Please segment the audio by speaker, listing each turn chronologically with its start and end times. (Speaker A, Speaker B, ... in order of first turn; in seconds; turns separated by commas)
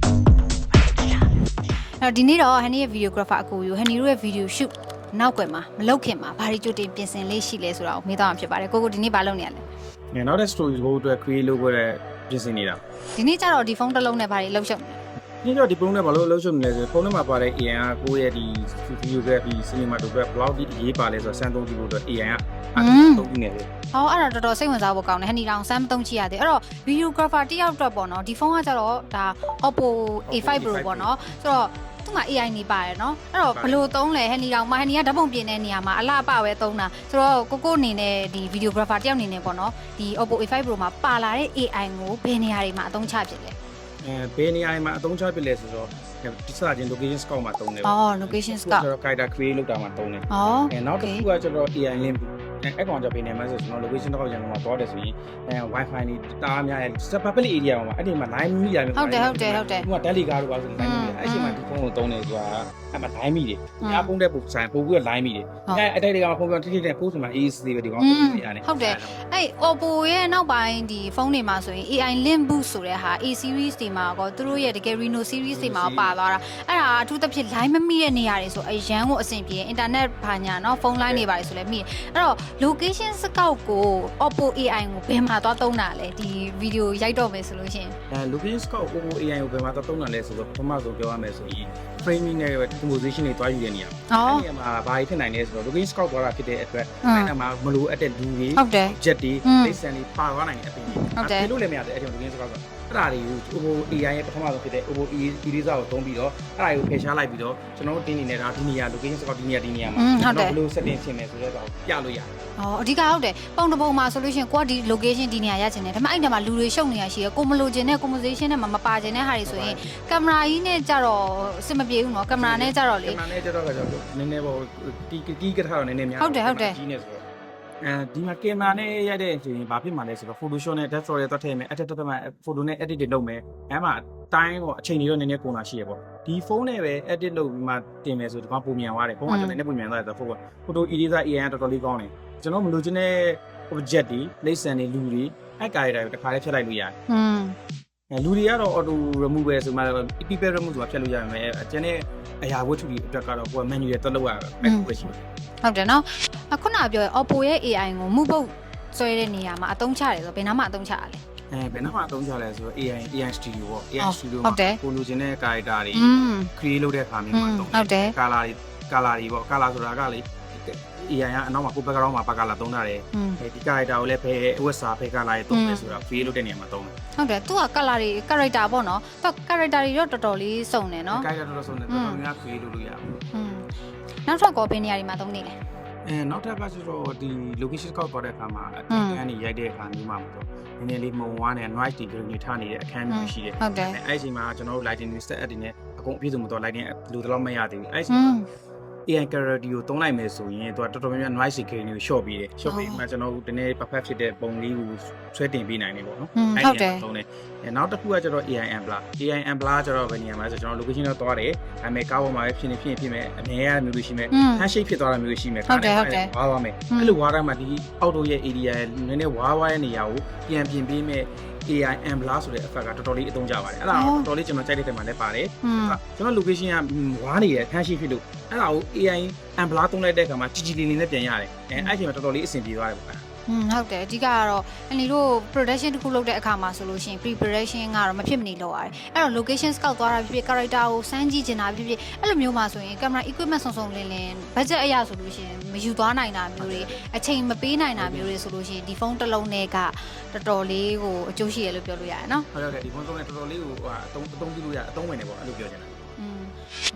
Speaker A: 2.0-9.6, Speaker B: 10.1-12.8, Speaker A: 13.1-15.0, Speaker B: 15.4-23.7, Speaker A: 22.8-23.3, Speaker A: 23.9-43.5, Speaker B: 30.3-31.2, Speaker B: 33.5-33.9, Speaker B: 44.0-69.2, Speaker A: 47.8-48.9, Speaker A: 50.3-51.2, Speaker A: 59.0-59.9, Speaker A: 60.8-61.6, Speaker A: 63.8-64.1, Speaker A: 68.0-88.0, Speaker B: 75.5-76.1, Speaker B: 88.1-112.3, Speaker A: 94.1-94.4, Speaker A: 97.0-97.3, Speaker A: 98.6-99.8, Speaker A: 100.9-101.5, Speaker A: 110.0-110.6, Speaker A: 112.6-123.2, Speaker B: 119.4-120.0, Speaker B: 122.3-127.2, Speaker A: 126.2-126.8, Speaker B: 127.8-146.9, Speaker A: 139.3-139.6, Speaker A: 147.1-147.5, Speaker B: 148.1-155.2, Speaker A: 154.6-154.9, Speaker A: 155.6-161.2, Speaker B: 161.5-176.9, Speaker A: 164.0-164.8, Speaker A: 165.9-166.5, Speaker A: 167.3-168.1, Speaker A: 173.1-173.4, Speaker A: 175.5-175.9, Speaker A: 177.2-181.3, Speaker B: 181.1-183.1, Speaker A: 181.9-182.2, Speaker A: 183.3-183.7, Speaker A: 184.3-185.5, Speaker B: 186.1-198.4, Speaker A: 188.9-189.2, Speaker A: 193.1-194.0, Speaker A: 198.1-198.5, Speaker B: 199.1-233.2, Speaker A: 202.7-203.0, Speaker A: 206.3-207.0, Speaker A: 214.3-214.7, Speaker A: 215.7-216.3, Speaker A: 223.9-224.3, Speaker A: 225.6-226.0, Speaker A: 233.5-252.5, Speaker B: 246.6-247.0, Speaker B: 248.0-248.4, Speaker B: 252.5-256.1, Speaker A: 256.2-256.5